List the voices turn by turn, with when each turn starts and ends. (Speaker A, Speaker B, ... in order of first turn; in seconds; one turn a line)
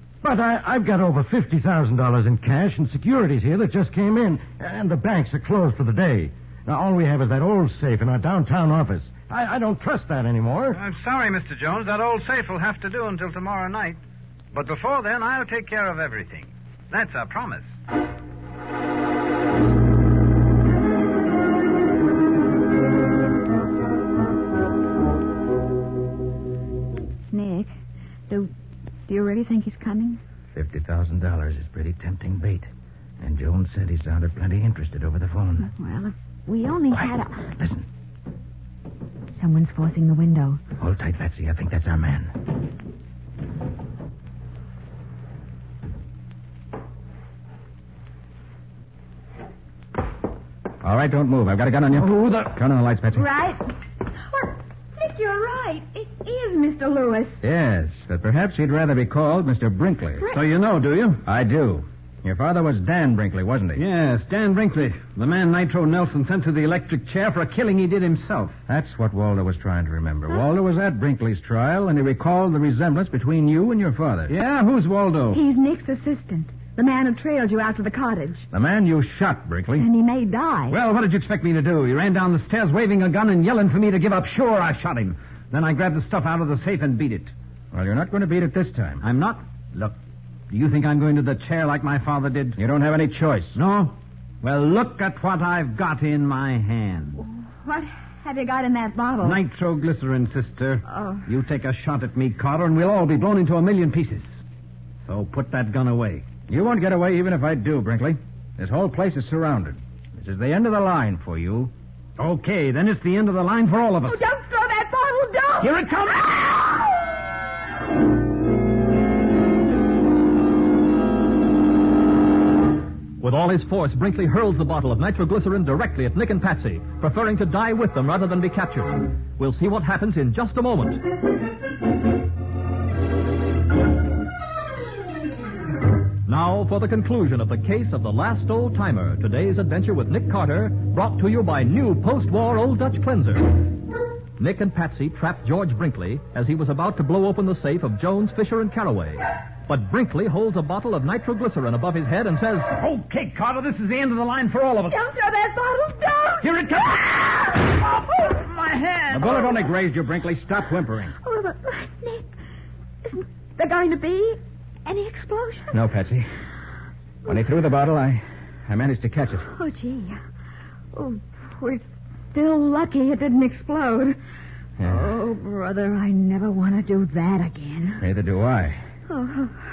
Speaker A: 0.2-10.8
Speaker B: 10.7-14.0
Speaker B: 14.5-17.7
Speaker C: 27.3-27.7
Speaker C: 29.1-30.2
Speaker D: 30.5-32.7
Speaker D: 33.2-35.7
Speaker C: 35.6-37.5
Speaker D: 36.9-37.9
Speaker C: 39.3-40.6
Speaker D: 40.8-42.3
Speaker D: 50.8-53.3
Speaker C: 53.1-53.7
Speaker C: 54.3-57.4
Speaker D: 57.4-60.3
Speaker E: 60.2-61.2
Speaker D: 61.2-63.9
Speaker E: 63.7-68.6
Speaker D: 68.7-74.4
Speaker E: 74.3-75.4
Speaker C: 75.3-78.5
Speaker D: 78.5-79.9
Speaker C: 79.8-80.8
Speaker E: 80.7-87.3
Speaker D: 87.7-89.0
Speaker E: 89.0-90.0
Speaker E: 90.5-92.6
Speaker D: 92.6-93.6
Speaker E: 93.5-97.2
Speaker C: 97.2-99.4
Speaker E: 99.2-104.3
Speaker C: 100.9-101.2
Speaker E: 105.0-106.3
Speaker D: 106.5-111.7
Speaker E: 112.2-114.2
Speaker C: 114.0-115.9
Speaker E: 115.6-116.9
Speaker F: 123.2-131.0
Speaker F: 136.3-143.7
Speaker F: 144.4-152.7
Speaker E: 152.7-155.0
Speaker C: 154.9-156.6
Speaker E: 156.4-159.6
Speaker D: 159.1-161.1
Speaker C: 161.2-162.3
Speaker C: 163.0-165.8
Speaker D: 165.7-166.3
Speaker D: 167.3-169.5
Speaker C: 169.5-170.2
Speaker C: 170.9-174.2
Speaker D: 174.8-175.2
Speaker C: 174.8-178.0
Speaker D: 178.0-178.8
Speaker C: 179.1-179.6